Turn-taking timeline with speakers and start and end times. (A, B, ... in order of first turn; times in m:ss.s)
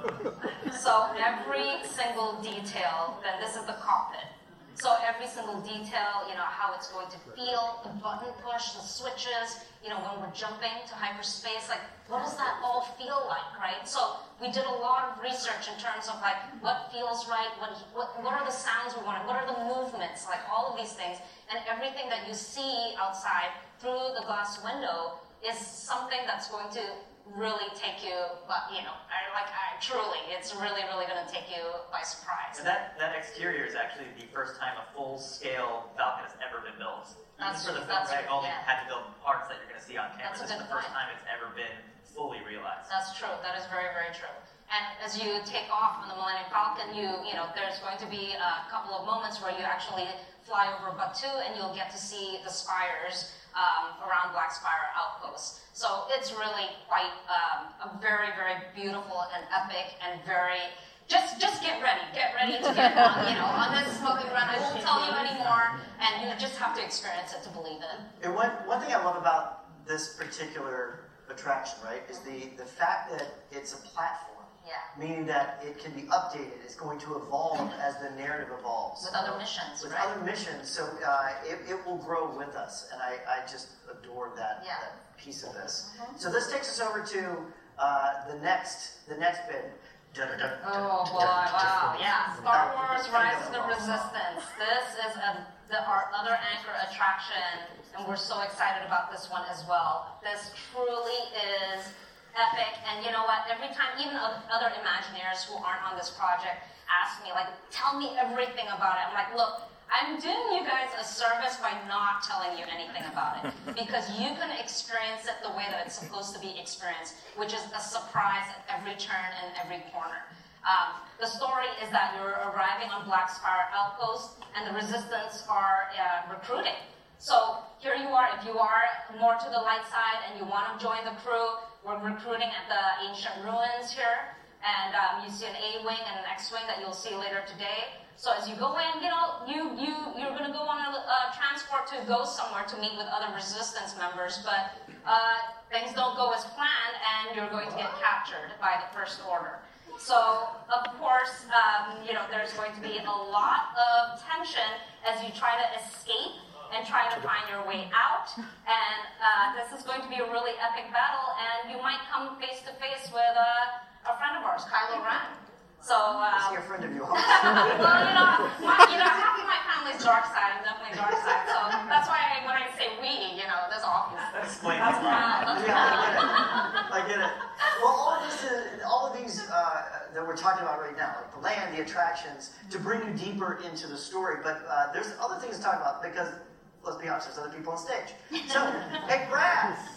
0:00.6-0:32.7 A
0:32.5-0:42.9 B
0:37.4-0:38.7 A
0:40.2-0:41.0 A
0:42.9-1:08.0 A
1:08.2-1:31.9 C
1:14.6-1:14.9 A
1:19.0-1:20.1 A
1:24.6-1:24.8 A
1:30.6-2:46.6 A
1:32.5-1:34.2 C
2:46.3-2:48.9 C
2:47.1-2:56.8 A
2:54.5-2:55.5 B
2:55.4-3:09.8 C